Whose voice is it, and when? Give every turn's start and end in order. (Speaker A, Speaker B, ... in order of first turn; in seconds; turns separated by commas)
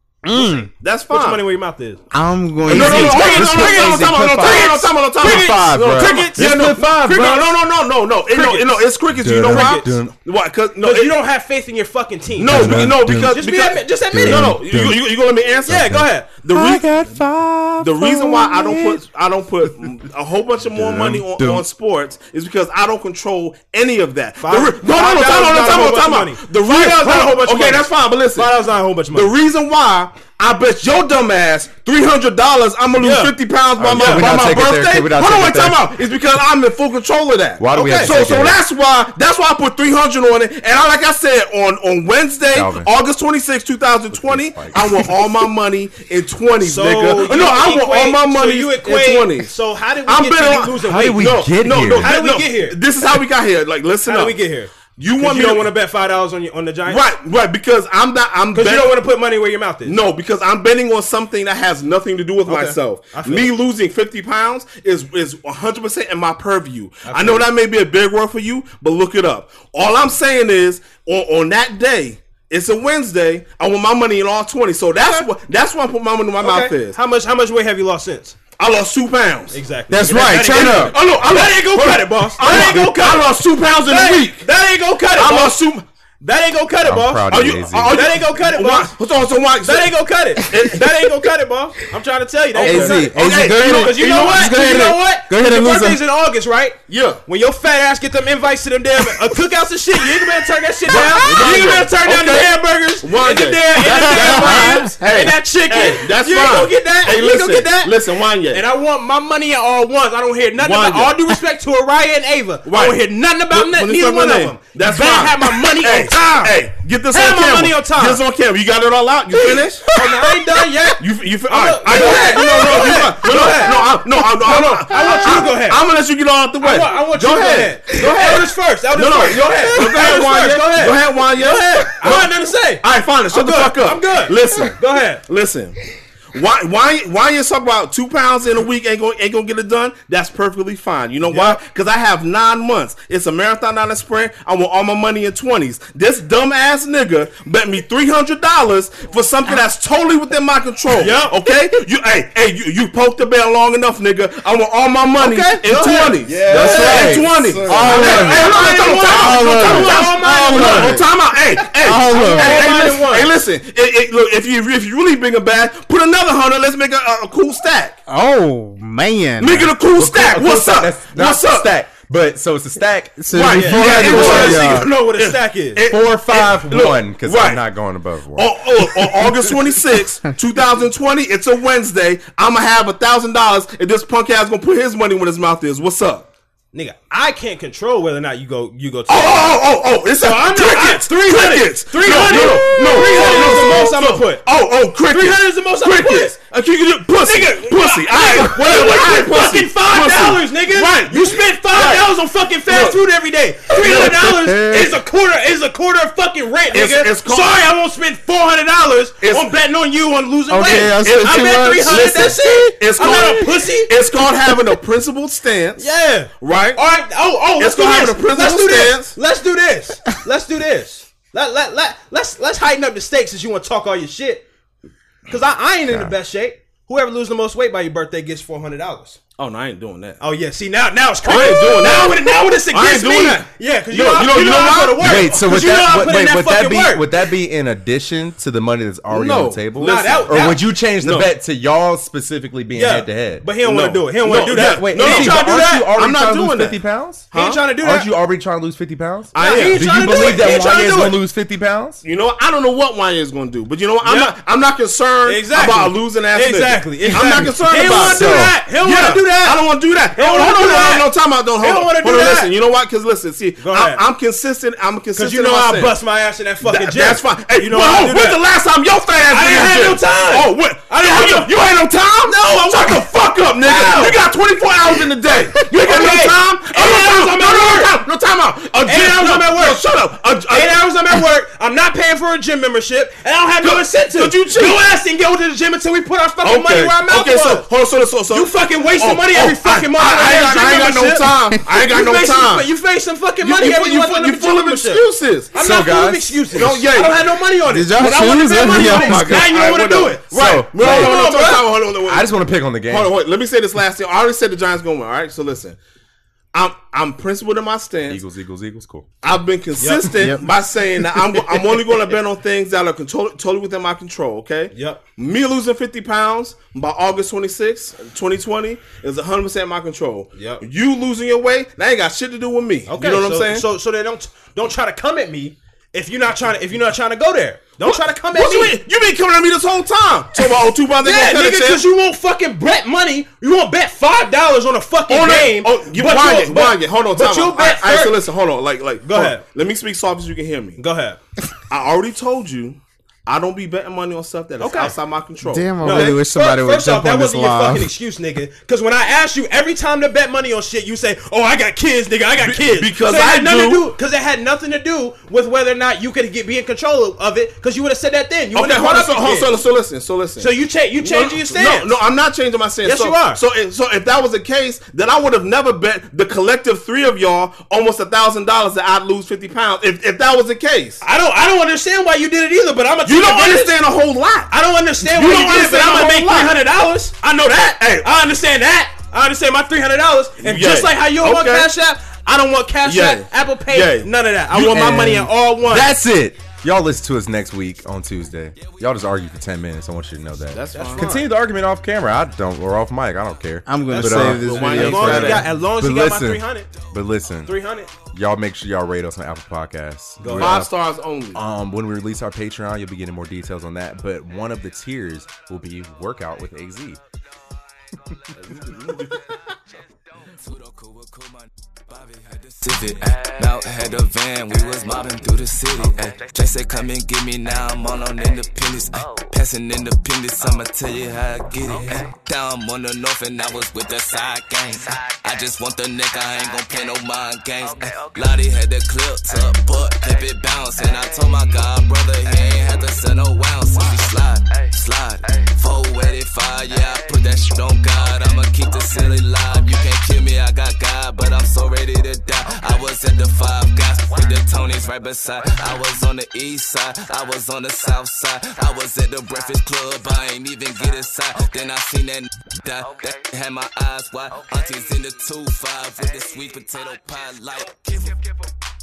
Speaker A: 0.2-0.7, Speaker B: 0.3-2.0, Speaker C: 0.7-1.4, Speaker A: 2.1-3.4, Speaker B: 2.6-6.5, Speaker C: 2.7-11.2, Speaker D: 2.7-4.8, Speaker A: 5.2-6.2, Speaker D: 6.3-7.6, Speaker B: 8.3-8.8, Speaker D: 9.1-10.1, Speaker B: 9.4-9.9, Speaker B: 10.8-14.6, Speaker C: 12.3-16.9, Speaker D: 12.4-13.4, Speaker D: 14.1-15.1, Speaker B: 15.7-16.3, Speaker D: 15.7-19.0, Speaker C: 17.8-28.5, Speaker D: 19.6-19.9, Speaker D: 20.6-21.6, Speaker B: 24.4-29.3, Speaker C: 29.1-49.5, Speaker B: 33.0-33.3, Speaker D: 33.8-35.9, Speaker B: 33.9-34.3, Speaker D: 37.6-38.6, Speaker B: 37.7-38.5, Speaker D: 42.4-42.9, Speaker D: 44.1-45.3, Speaker B: 46.6-51.2, Speaker C: 50.1-54.4, Speaker D: 50.8-52.1, Speaker B: 51.9-52.8, Speaker B: 54.0-57.0, Speaker C: 55.0-55.7, Speaker C: 56.9-59.0, Speaker B: 58.5-60.0, Speaker C: 59.8-77.0, Speaker B: 62.5-63.5, Speaker B: 67.0-67.5, Speaker B: 74.9-75.3, Speaker B: 76.4-78.4, Speaker C: 78.6-79.6, Speaker B: 79.5-85.6, Speaker A: 79.9-81.0, Speaker C: 80.1-84.5, Speaker C: 85.1-85.8, Speaker B: 86.2-87.3, Speaker D: 86.8-88.0, Speaker C: 87.3-89.9, Speaker B: 87.9-89.0, Speaker B: 89.6-116.5, Speaker C: 90.5-91.3, Speaker C: 92.5-94.5, Speaker A: 92.6-96.0, Speaker C: 96.9-97.2, Speaker C: 100.8-108.6, Speaker A: 103.8-104.9, Speaker C: 110.6-111.2, Speaker C: 112.7-113.0, Speaker C: 113.5-119.9, Speaker B: 117.1-118.2, Speaker A: 119.4-120.9, Speaker B: 119.9-125.8, Speaker C: 121.0-135.8, Speaker A: 121.9-124.0, Speaker A: 124.9-125.2, Speaker B: 126.6-135.2, Speaker A: 129.5-130.1, Speaker C: 136.3-168.0, Speaker B: 141.2-141.6, Speaker B: 150.9-151.4, Speaker A: 155.2-155.6, Speaker B: 155.6-157.2, Speaker D: 156.2-158.5, Speaker A: 156.5-161.0, Speaker B: 157.8-163.3, Speaker A: 161.8-162.6, Speaker A: 168.1-169.7, Speaker C: 169.4-171.7, Speaker D: 169.9-174.5, Speaker A: 173.2-174.9, Speaker C: 173.3-177.6, Speaker B: 173.4-175.8, Speaker D: 175.9-179.3, Speaker C: 178.3-186.3, Speaker B: 186.7-189.6, Speaker C: 189.1-202.1, Speaker B: 190.1-194.4, Speaker B: 195.1-196.3, Speaker B: 197.2-213.9, Speaker C: 202.7-203.0, Speaker C: 203.7-204.1, Speaker A: 204.2-205.0, Speaker C: 206.7-207.6, Speaker C: 209.2-209.6, Speaker A: 210.5-212.1, Speaker C: 210.6-215.9, Speaker B: 215.8-224.4, Speaker C: 216.4-216.8, Speaker C: 217.6-219.2, Speaker B: 225.3-229.2, Speaker D: 225.9-226.1, Speaker C: 229.4-230.2, Speaker B: 230.2-237.2, Speaker C: 231.2-235.3, Speaker D: 235.0-243.4, Speaker C: 239.1-241.3, Speaker B: 239.8-240.6, Speaker B: 242.7-245.9, Speaker C: 243.6-247.7, Speaker D: 244.4-252.0, Speaker B: 247.3-248.1, Speaker C: 249.3-250.6, Speaker B: 249.3-251.2, Speaker C: 252.0-265.9, Speaker B: 254.0-254.3, Speaker B: 255.2-262.5, Speaker A: 257.1-257.5, Speaker D: 257.8-258.5, Speaker B: 263.6-264.0, Speaker B: 265.1-268.4, Speaker C: 266.6-280.8, Speaker B: 269.2-271.5, Speaker B: 272.2-274.2, Speaker B: 275.3-278.0, Speaker B: 278.8-279.8, Speaker B: 280.5-287.7, Speaker C: 283.6-284.8, Speaker C: 286.4-292.7, Speaker B: 288.3-295.0, Speaker C: 293.4-295.5, Speaker B: 295.5-301.8, Speaker D: 295.5-296.7, Speaker C: 296.5-297.2, Speaker A: 297.7-299.5, Speaker C: 298.1-305.8, Speaker D: 300.3-301.2, Speaker D: 302.0-303.1, Speaker C: 306.5-308.2, Speaker D: 308.1-309.1, Speaker C: 309.2-323.6, Speaker B: 309.8-310.4, Speaker A: 310.2-310.4, Speaker B: 311.2-312.0, Speaker B: 314.7-315.0, Speaker B: 320.4-320.6, Speaker B: 322.9-328.8, Speaker C: 327.8-331.8, Speaker B: 330.4-338.2, Speaker C: 335.1-340.8, Speaker B: 339.0-339.4, Speaker B: 340.8-341.2, Speaker C: 341.7-346.2, Speaker B: 344.6-344.9, Speaker A: 345.4-347.9, Speaker B: 345.8-359.5, Speaker C: 352.4-353.8, Speaker C: 358.5-371.0, Speaker B: 360.4-362.0, Speaker B: 362.8-363.4, Speaker B: 371.0-373.8, Speaker C: 373.1-376.5, Speaker B: 374.5-385.9, Speaker C: 377.2-378.1, Speaker C: 380.4-381.7, Speaker C: 382.8-385.3, Speaker D: 385.6-397.5, Speaker C: 390.5-391.1, Speaker B: 390.7-391.3, Speaker A: 393.6-395.5, Speaker B: 393.9-396.7, Speaker C: 394.0-395.5, Speaker B: 397.4-397.9, Speaker D: 398.1-400.7, Speaker B: 400.2-400.6, Speaker C: 400.3-401.4, Speaker D: 401.3-407.0, Speaker C: 408.4-409.3, Speaker E: 410.2-458.2